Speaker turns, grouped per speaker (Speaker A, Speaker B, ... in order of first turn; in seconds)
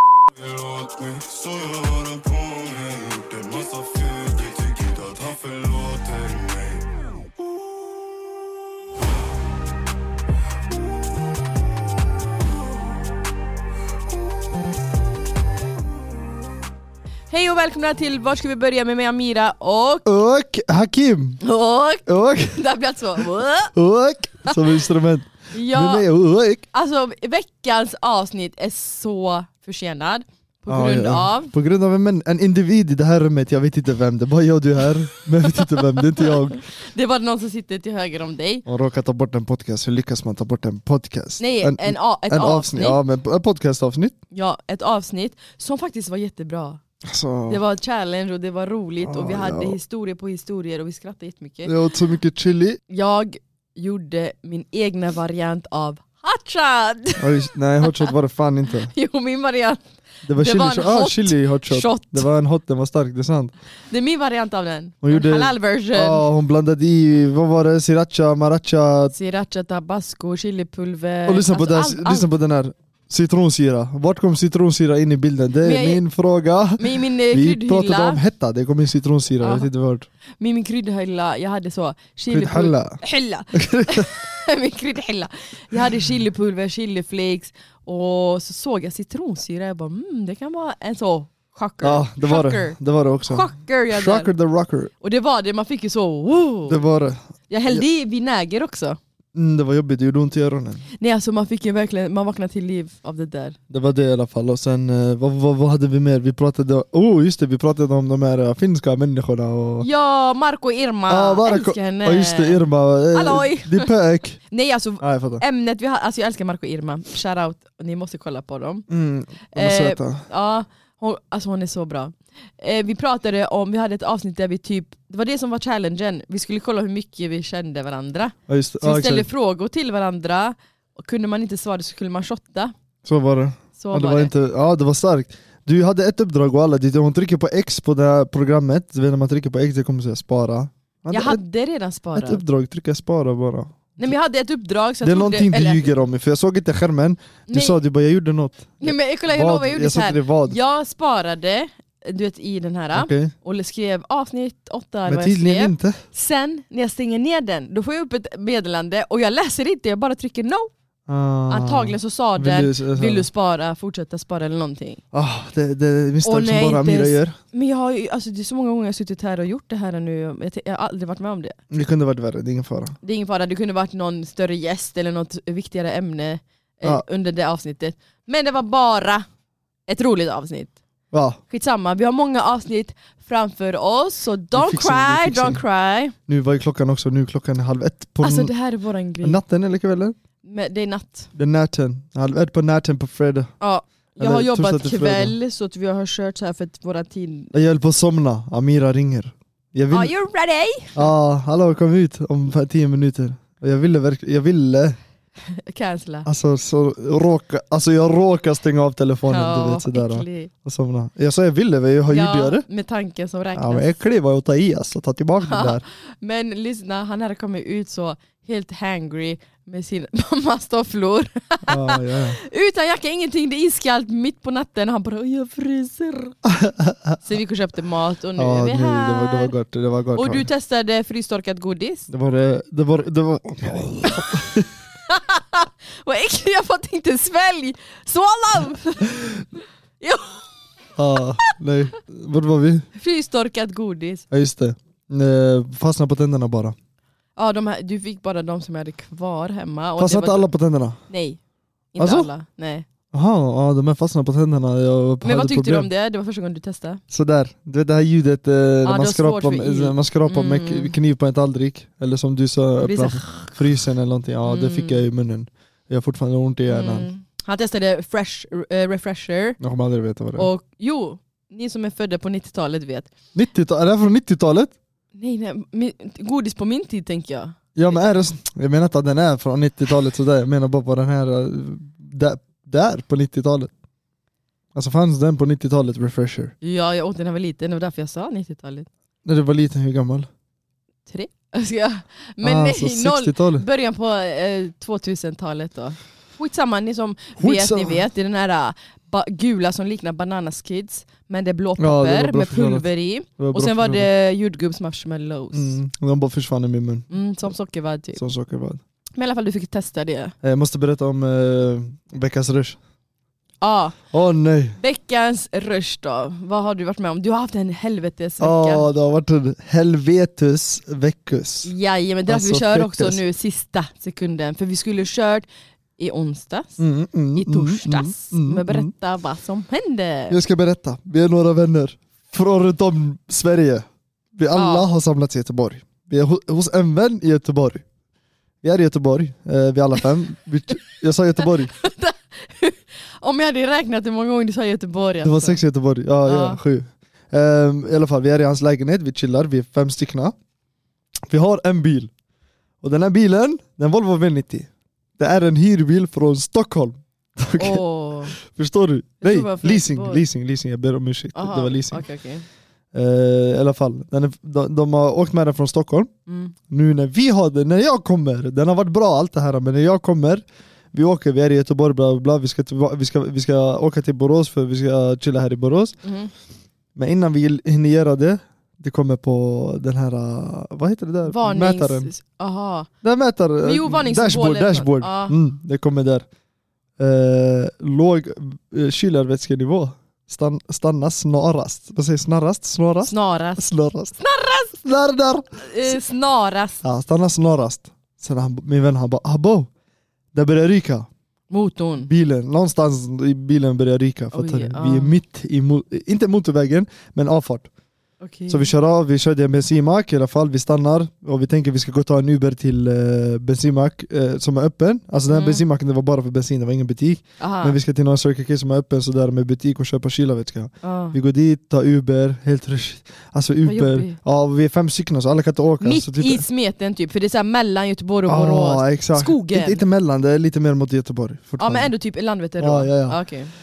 Speaker A: 0.4-6.8
Speaker B: 17.3-20.1, 21.4-23.7, 25.5-26.1, 26.7-31.5, 35.7-38.6, 41.4-43.0, 44.3-46.8, 47.5-51.7, 52.9-58.1, 58.9-59.8, 60.3-62.3, 63.9-66.2, 69.1-72.3, 75.6-76.0, 76.8-78.2, 79.4-79.7, 80.4-94.3, 95.0-96.8, 97.5-99.0, 101.0-103.6, 109.8-113.9, 114.5-118.9, 119.5-132.7, 133.8-134.3, 141.1-142.4, 144.0-145.9, 147.5-147.8, 148.8-160.7, 161.5-165.0, 166.2-171.6, 173.0-179.2, 179.9-180.8, 181.5-186.1, 188.2-189.4, 190.4-191.3, 193.6-197.5, 199.9-201.1, 205.5-206.3, 209.3-210.5, 212.1-213.9, 215.4-226.3, 227.2-229.5, 230.1-232.1, 234.1-234.3, 235.1-239.4, 240.0-240.4, 243.0-244.2, 247.3-250.5, 251.1-251.4, 251.9-252.8, 255.2-257.0, 258.8-260.9, 262.8-263.6, 264.4-265.0, 266.7-269.6, 270.4-273.1, 275.1-278.0, 286.6-288.9, 291.1-305.8, 307.1-308.2, 309.1-310.3, 313.6-314.0, 314.8-318.8, 321.6-330.4, 334.5-334.9, 341.7-345.6, 346.2-346.6, 357.6-358.4, 359.2-360.2, 361.3-362.4, 366.3-366.5, 376.0-376.3, 381.2-382.9, 383.6-385.4, 393.1-393.6, 394.2-394.8, 395.6-396.8, 401.5-402.1, 404.3-405.1, 408.2-408.7, 415.3-415.6, 417.4-417.8, 420.8-421.2, 423.6-424.2, 425.8-429.8, 431.6-433.5
Speaker C: 20.0-21.4, 22.1-22.6, 23.7-26.6, 30.7-36.6, 38.6-44.1, 47.0-47.6, 49.0-49.8, 51.6-52.8, 57.2-58.9, 60.2-63.5, 65.0-69.1, 71.3-80.1, 82.3-83.0, 83.5-84.1, 91.8-94.9, 96.7-97.8, 99.3-100.8, 103.7-109.9, 111.1-114.4, 115.0-115.4, 118.9-120.2, 128.5-129.3, 133.0-141.4, 142.1-144.1, 145.0-150.6, 152.9-153.3, 155.1-156.0, 161.1-163.3, 165.1-167.3, 171.7-172.9, 181.1-181.4, 184.5-185.6, 186.3-188.5, 189.2-190.1, 191.3-193.5, 194.2-195.3, 197.5-200.1, 200.9-205.0, 206.2-212.6, 213.5-215.8, 221.7-222.4, 226.4-227.2, 228.4-230.4, 232.1-234.7, 240.9-242.8, 244.3-246.7, 250.0-251.0, 252.0-252.3, 253.1-255.9, 257.1-267.1, 269.6-270.5, 273.3-274.7, 277.7-283.7, 284.7-286.5, 289.2-290.3, 292.4-293.6, 297.4-298.0, 301.8-302.9, 303.4-304.1, 305.5-307.1, 308.2-308.8, 310.4-312.8, 314.1-314.8, 318.4-321.7, 322.3-323.2, 326.8-328.9, 330.3-337.8, 338.6-341.7, 345.2-350.3, 351.3-352.1, 352.8-357.8, 358.3-362.1, 362.9-366.1, 366.7-375.9, 376.9-382.1, 383.0-386.2, 387.0-394.1, 394.8-396.0, 396.8-399.7, 400.3-401.1, 402.0-407.7, 408.5-426.4, 428.3-431.9, 432.6-433.2